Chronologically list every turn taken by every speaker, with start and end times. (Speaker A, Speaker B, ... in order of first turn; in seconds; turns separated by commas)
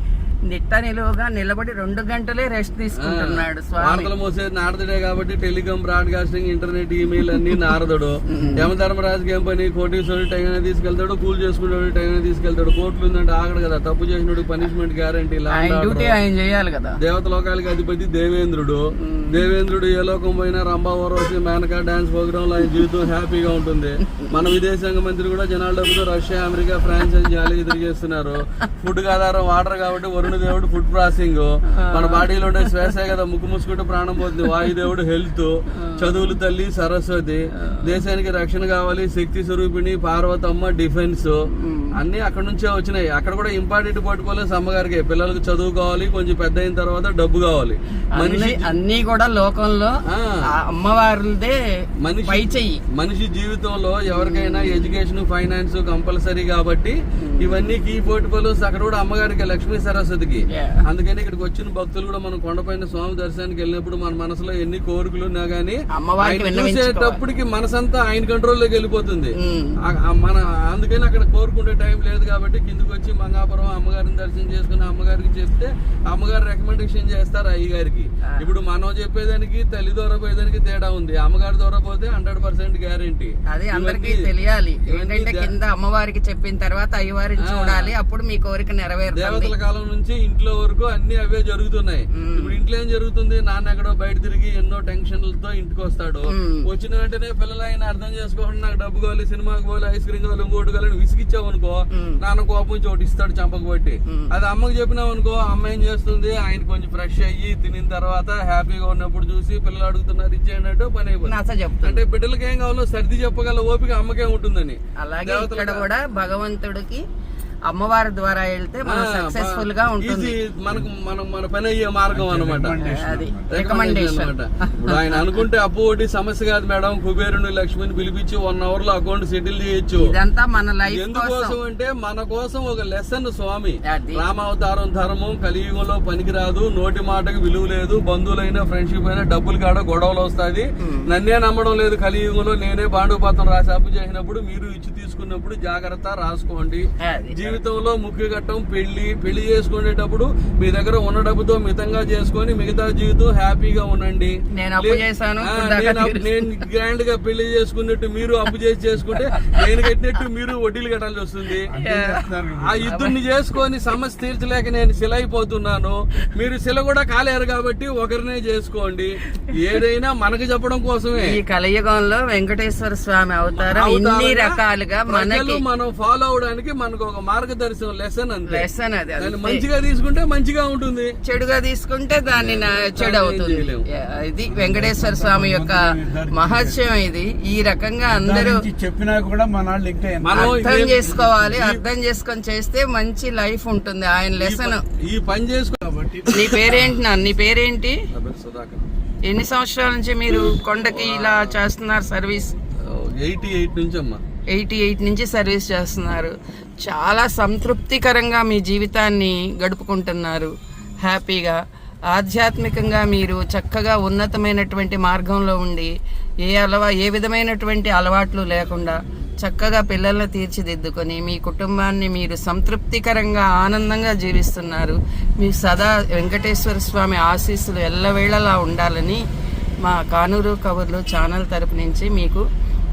Speaker A: 0.5-4.1, Speaker B: 3.0-16.2, Speaker A: 7.2-7.6, Speaker A: 8.3-8.7, Speaker A: 15.5-17.0, Speaker B: 17.0-41.4, Speaker A: 19.0-19.5, Speaker A: 24.2-24.5, Speaker A: 31.7-33.0, Speaker A: 34.3-34.8, Speaker A: 35.7-36.4, Speaker A: 37.5-38.0, Speaker A: 41.5-41.9, Speaker B: 42.0-48.7, Speaker A: 48.2-49.9, Speaker B: 50.1-50.4, Speaker A: 50.5-52.8, Speaker B: 52.0-84.3, Speaker A: 54.1-54.9, Speaker A: 57.2-57.7, Speaker A: 60.5-60.8, Speaker A: 65.9-67.2, Speaker A: 69.4-69.8, Speaker A: 83.5-89.5, Speaker B: 84.9-85.5, Speaker B: 87.4-87.9, Speaker B: 89.1-111.3, Speaker A: 92.1-92.6, Speaker A: 96.3-96.7, Speaker A: 101.9-102.2, Speaker A: 111.2-112.0, Speaker B: 111.8-115.9, Speaker A: 115.0-117.0, Speaker A: 117.7-120.3, Speaker B: 118.9-122.8, Speaker C: 122.1-123.5, Speaker A: 122.8-125.4, Speaker B: 123.5-130.1, Speaker A: 130.0-131.6, Speaker B: 130.9-161.7, Speaker A: 133.9-134.2, Speaker A: 147.0-147.6, Speaker A: 154.5-156.5, Speaker C: 161.7-162.9, Speaker A: 161.7-162.3, Speaker B: 162.5-171.3, Speaker A: 162.9-163.2, Speaker A: 171.2-175.6, Speaker B: 173.6-174.6, Speaker B: 175.1-178.7, Speaker A: 178.5-179.7, Speaker B: 179.2-181.1, Speaker A: 181.2-188.7, Speaker B: 182.3-183.8, Speaker C: 184.5-186.8, Speaker C: 188.1-191.3, Speaker B: 190.2-191.8, Speaker A: 190.3-194.8, Speaker B: 194.4-196.8, Speaker C: 195.9-196.9, Speaker A: 196.3-198.0, Speaker B: 198.1-198.9, Speaker A: 199.3-202.5, Speaker B: 200.3-201.6, Speaker B: 202.9-204.2, Speaker A: 204.5-210.5, Speaker A: 211.0-211.6, Speaker A: 212.1-215.9, Speaker A: 216.5-229.2, Speaker A: 229.8-232.4